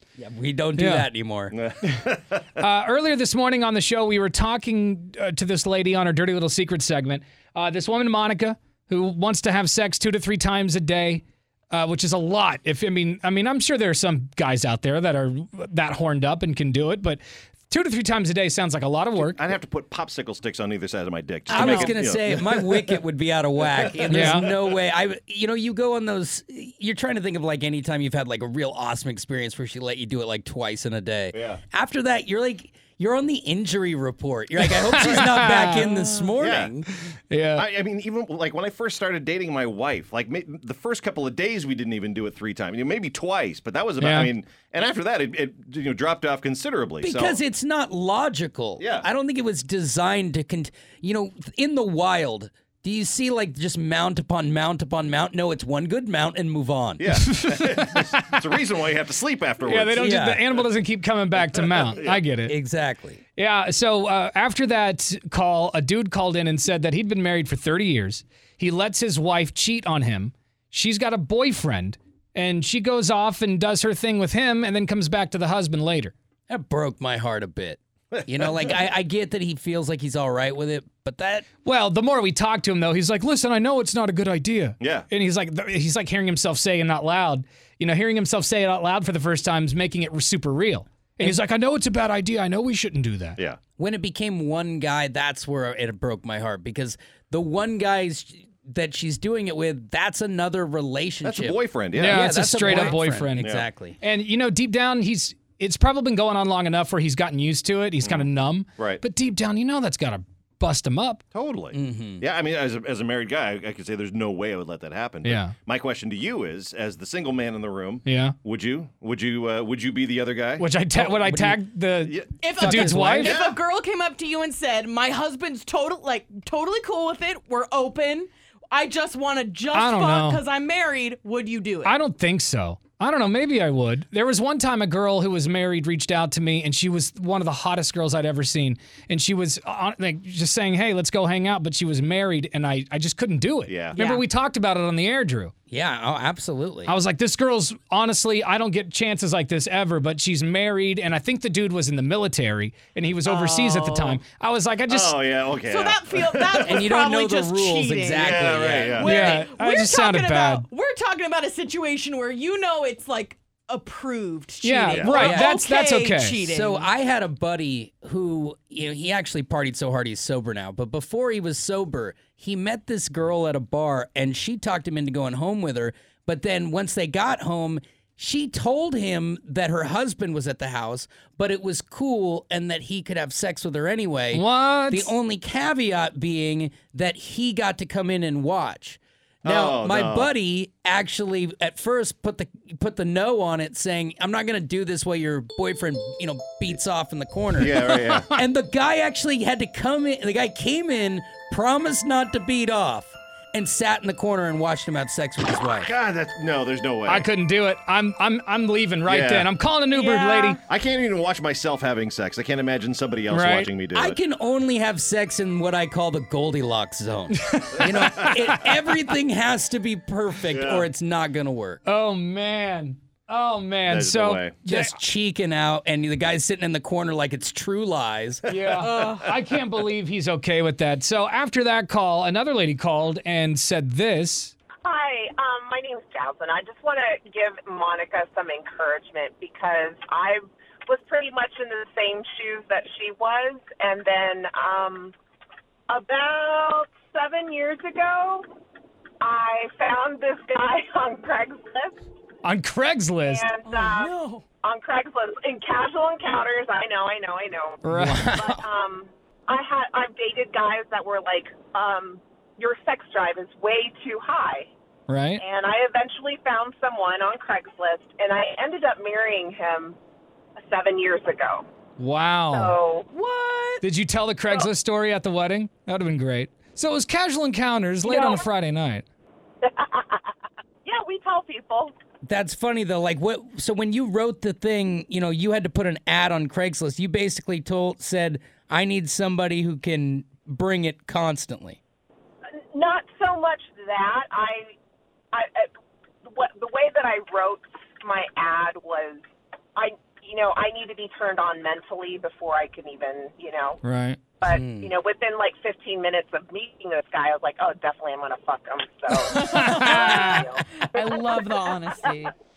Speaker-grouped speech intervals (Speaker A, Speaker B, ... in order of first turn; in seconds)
Speaker A: 0.2-1.5, 21.5-36.9, 47.0-57.1, 60.0-60.4, 62.5-63.2, 76.5-81.5, 93.8-104.0, 111.7-112.2, 120.9-121.6, 122.6-123.3, 145.7-146.9, 156.7-159.5, 165.1-165.5, 166.3-205.9, 213.9-221.8, 224.6-228.4, 257.9-258.6, 282.2-291.8, 304.5-304.9
Speaker B: 0.8-1.1, 2.6-19.4, 21.5-21.9, 24.1-24.5, 34.7-35.9, 37.3-37.6, 44.0-44.3, 57.1-58.4, 59.6-62.6, 63.4-76.1, 81.6-93.4, 102.0-111.2, 115.2-115.5, 118.0-118.3, 120.6-123.3, 129.7-130.4, 131.8-145.5, 146.8-155.4, 159.1-160.7, 164.6-166.4, 184.3-185.1, 207.1-210.6, 213.3-213.7, 217.4-218.8, 221.8-225.0, 228.5-234.5, 252.4-253.5, 257.8-258.5, 265.1-265.4, 272.0-272.8, 273.8-279.0, 303.8-304.2, 309.1-310.5
Speaker C: 1.5-2.4, 19.1-23.0, 23.6-24.7, 31.3-31.6, 36.4-36.7, 37.5-47.4, 48.8-49.1, 57.0-60.1, 61.5-62.2, 78.4-78.8, 84.8-85.1, 101.2-103.7, 108.0-109.0, 111.3-120.7, 122.0-123.6, 143.7-144.0, 154.9-156.9, 158.2-159.2, 164.9-165.3, 189.4-190.3, 197.6-198.3, 205.6-207.3, 209.1-209.5, 210.6-214.2, 220.5-220.9, 223.9-224.6, 228.8-229.2
Speaker D: 122.4-132.0, 143.9-144.2, 153.2-154.2, 155.6-166.9, 209.9-210.6, 228.8-229.2, 253.6-254.4, 273.1-273.8, 309.4-310.2, 310.8-312.3
Speaker E: 234.8-245.1, 245.9-248.4, 249.2-252.0, 253.2-264.7, 265.4-269.9, 270.6-271.6, 272.5-273.1, 278.0-278.4, 279.6-280.2, 280.8-281.9, 292.7-294.7, 295.3-295.7, 296.2-299.2, 299.8-303.8, 304.4-311.6